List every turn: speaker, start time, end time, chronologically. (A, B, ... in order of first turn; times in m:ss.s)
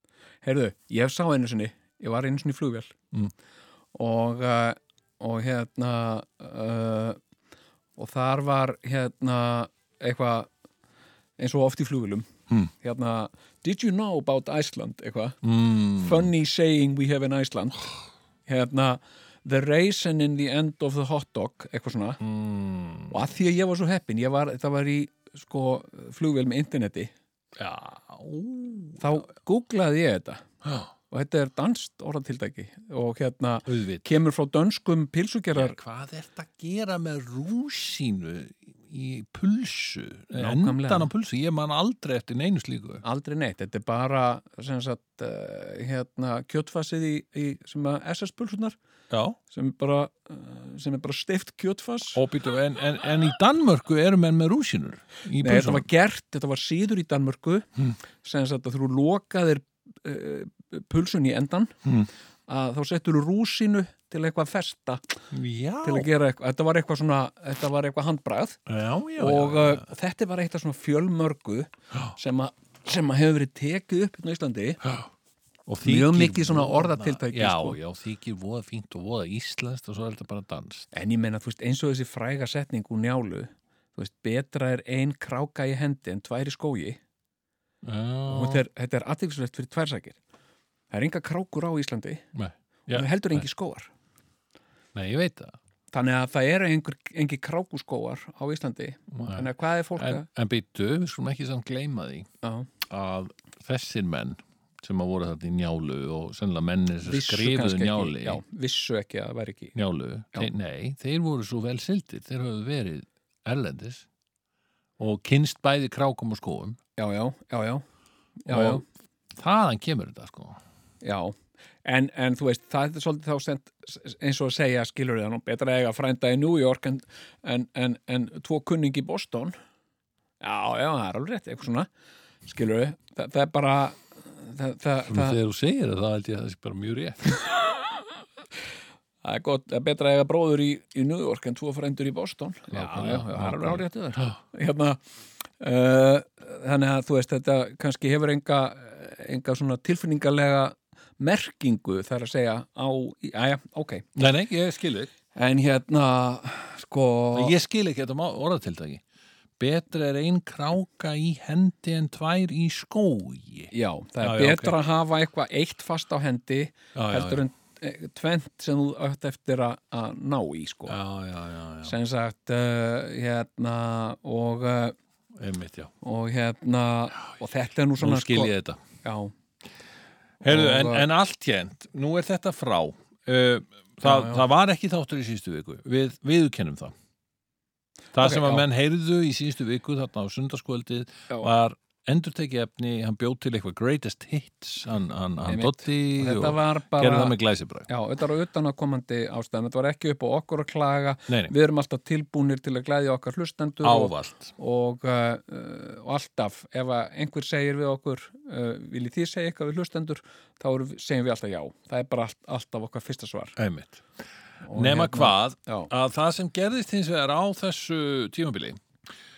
0:00.4-0:03.0 A
0:03.9-0:07.2 A
0:08.0-0:10.5 A
0:11.4-0:15.4 A
0:15.4-0:16.3 B
0:15.9-0:18.0 A
0:18.5-0:22.2 A
0:22.2-0:23.2 B
0:23.1-0:27.1 A
0:27.6-0:29.1 B
0:29.0-0:30.5 A
0:30.6-0:30.9 B
0:31.1-0:35.8 A
0:33.7-0:34.1 B
0:35.5-0:43.0 B
0:40.4-0:41.1 A
0:43.0-0:48.8 A
0:49.1-0:49.4 B
0:49.5-0:52.2 A
0:52.1-0:55.9 B
0:55.4-1:01.8 A
1:02.5-1:05.0 A
1:05.3-1:06.1 B
1:05.8-1:08.6 A
1:08.7-1:09.9 B
1:09.2-1:14.8 A
1:14.8-1:15.1 B
1:15.7-1:20.9 B
1:15.8-1:17.8 A
1:20.9-1:27.0 A
1:27.8-1:28.6 B
1:28.2-1:30.2 A
1:30.9-1:32.2 A
1:32.4-1:33.4 B
1:32.9-1:33.9 A
1:34.9-1:35.6 B
1:35.9-1:40.3 A
1:39.1-1:39.5 B
1:40.0-1:42.3 B
1:42.4-1:42.7 A
1:42.8-1:48.4 B
1:47.0-1:49.8 A
1:49.8-1:54.1 B
1:55.0-1:56.8 B
1:57.0-1:57.8 A
1:58.4-1:58.8 A
1:58.5-2:00.6 B
2:01.0-2:09.6 A
2:10.4-2:11.9 A
2:12.5-2:15.4 A
2:15.1-2:17.4 B
2:19.2-2:25.0 A
2:22.7-2:24.3 B
2:25.6-2:34.1 A
2:34.1-2:35.1 B
2:35.3-2:37.6 A
2:37.3-2:39.0 B
2:39.6-2:44.8 B
2:43.7-2:51.0 A
2:47.0-2:47.4 B
2:50.9-2:51.9 B
2:51.8-2:55.0 A
2:55.4-2:55.9 B
2:56.0-2:59.3 A
2:58.0-2:58.8 B
3:00.4-3:06.9 B
3:00.4-3:01.0 A
3:04.0-3:04.4 A
3:08.1-3:17.9 B
3:08.2-3:08.7 A
3:15.5-3:17.4 A
3:17.9-3:33.6 A
3:21.3-3:21.5 B
3:23.8-3:24.5 B
3:33.6-3:34.1 B
3:34.6-3:35.9 A
3:34.7-3:38.8 B